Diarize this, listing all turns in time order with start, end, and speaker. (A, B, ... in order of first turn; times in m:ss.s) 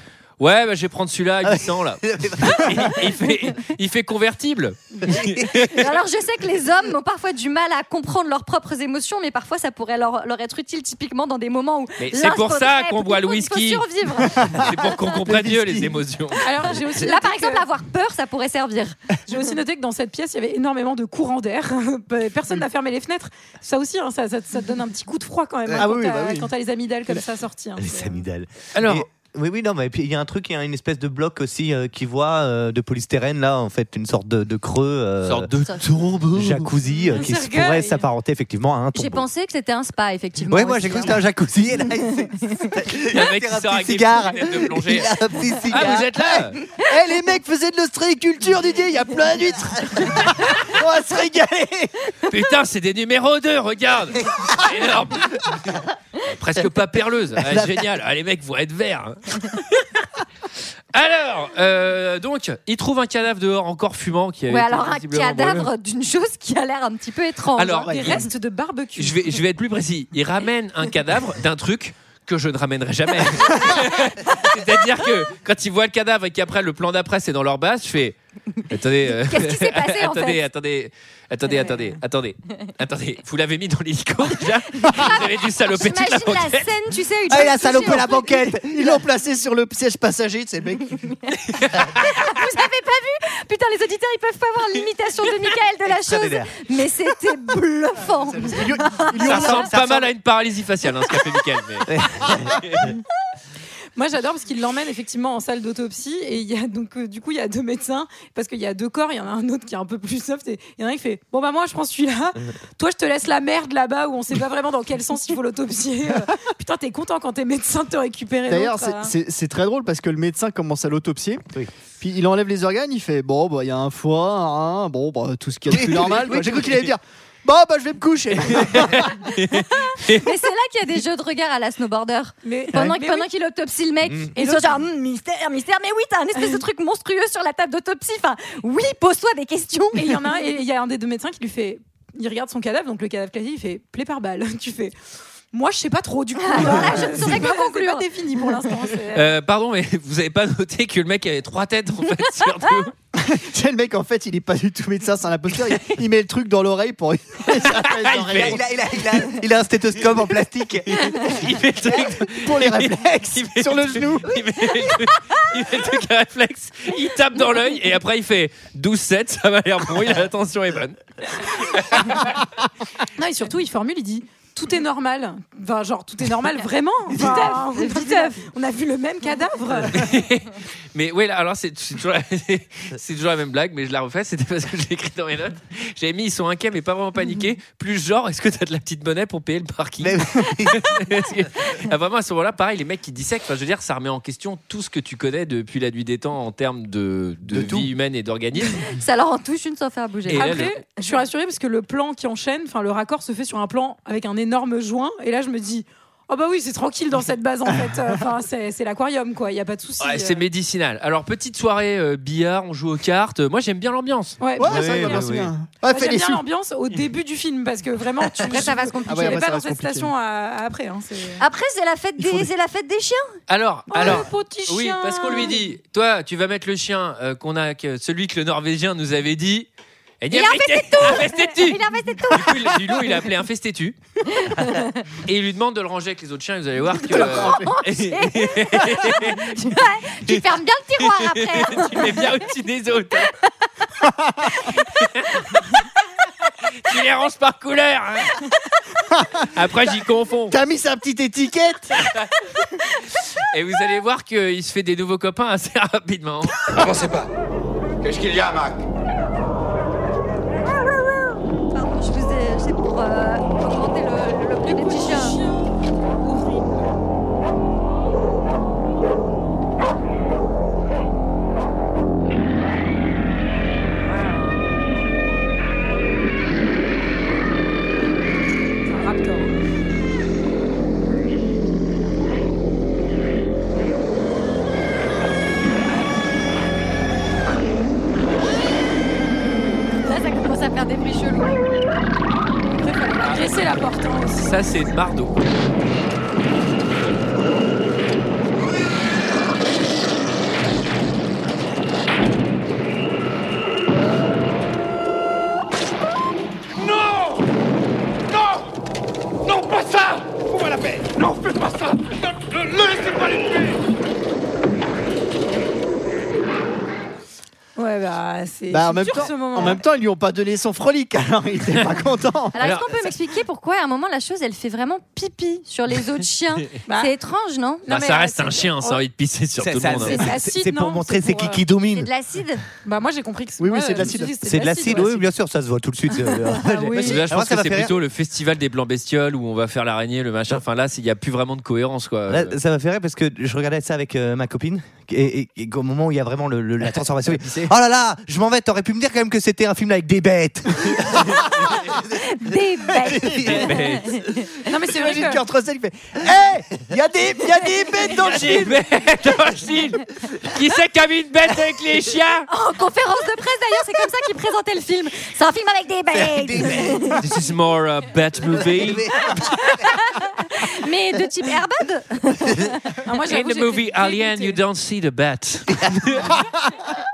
0:00.4-0:05.9 A
0:01.4-0:03.1 B
0:05.1-0:05.5 B
0:05.6-0:14.8 C
0:12.0-0:13.8 A
0:14.4-0:16.0 D
0:14.5-0:17.0 A
0:16.4-0:17.7 E
0:16.9-0:19.0 C
0:19.3-0:28.2 E
0:25.8-0:26.5 D
0:27.8-0:35.5 B
0:28.7-0:29.1 A
0:35.2-0:36.7 A
0:36.3-0:39.2 B
0:36.9-0:38.0 E
0:38.9-0:41.2 C
0:40.5-0:46.5 B
0:43.1-0:45.2 A
0:45.7-0:46.6 A
0:46.8-0:52.1 D
0:52.3-1:00.0 A
0:57.4-0:57.8 B
1:00.9-1:05.7 A
1:04.5-1:08.0 C
1:07.6-1:08.3 A
1:07.9-1:09.2 E
1:07.9-1:08.2 D
1:09.0-1:18.2 A
1:18.7-1:26.7 A
1:19.2-1:20.4 C
1:24.8-1:28.3 C
1:27.3-1:29.1 B
1:27.5-1:31.0 D
1:31.4-1:32.3 A
1:31.9-1:39.6 C
1:35.9-1:36.5 B
1:38.3-1:39.6 D
1:39.2-1:40.1 B
1:39.2-1:42.9 A
1:41.9-1:42.5 B
1:44.0-1:59.1 E
1:58.5-2:01.4 D
2:02.0-2:09.2 D
2:05.7-2:06.9 B
2:08.5-2:10.3 A
2:10.0-2:20.3 C
2:12.4-2:13.3 E
2:14.4-2:14.8 E
2:19.9-2:24.9 E
2:25.5-2:29.4 E
2:26.4-2:28.6 C
2:26.6-2:27.0 D
2:29.1-2:32.9 A
2:33.1-2:38.6 D
2:37.5-2:38.6 A
2:38.1-2:41.4 B
2:40.9-2:52.3 A
2:42.3-2:44.3 D
2:53.2-3:00.1 E
2:57.1-2:58.4 C
2:59.9-3:18.8 A
3:10.0-3:10.9 B
3:17.5-3:17.9 B
3:18.8-3:20.7 C
3:20.3-3:20.7 A
3:20.3-3:30.4 E
3:30.0-3:34.4 A
3:34.4-3:35.3 E
3:34.6-3:36.4 D
3:34.6-3:35.5 B
3:35.8-3:41.4 E
3:38.4-3:39.5 C
3:39.1-3:40.1 D
3:41.4-3:43.4 C
3:42.2-3:42.5 D
3:43.5-3:49.7 A
3:43.9-3:45.6 E
3:50.2-3:54.0 A
3:50.3-3:53.0 C
3:54.3-3:55.0 C
3:55.2-4:00.4 A
3:57.0-4:02.4 C
3:57.0-3:57.7 D
4:01.0-4:03.3 A
4:04.0-4:04.5 D
4:04.9-4:05.4 A
4:06.8-4:08.4 A
4:09.1-4:09.4 D
4:09.5-4:10.6 A
4:10.5-4:12.0 D
4:12.0-4:12.3 A
4:13.4-4:16.6 A
4:16.7-4:17.3 F
4:18.0-4:18.8 F
4:21.7-4:25.4 C
4:24.6-4:26.6 E
4:38.8-4:39.6 E
4:50.0-4:51.6 C
4:52.8-4:54.6 E
4:53.2-4:53.5 A
4:54.3-4:55.4 A
5:06.8-5:07.4 F
5:08.3-5:08.6 F
5:09.5-5:13.7 F
5:17.8-5:19.8 E
5:18.7-5:22.5 D
5:22.5-5:28.0 C
5:22.6-5:22.9 A
5:26.8-5:27.1 E
5:27.9-5:30.3 A
5:27.9-5:29.0 E
5:29.6-5:32.1 B
5:29.9-5:31.6 E
5:31.9-5:32.6 C
5:32.8-5:35.2 E
5:33.6-5:34.3 D
5:34.4-5:38.0 B
5:36.2-5:37.2 E
5:36.9-5:42.6 A
5:42.3-5:51.9 B
5:52.2-5:54.5 C
5:53.0-5:53.6 B
5:53.1-5:53.5 D
5:53.4-5:54.1 A
5:54.7-5:55.4 E
5:54.8-5:58.8 D
5:58.2-6:02.5 A
6:02.5-6:07.2 C
6:06.1-6:07.2 B
6:07.2-6:09.1 A
6:08.4-6:10.0 B
6:09.3-6:12.8 C
6:13.0-6:14.6 E
6:13.2-6:16.4 A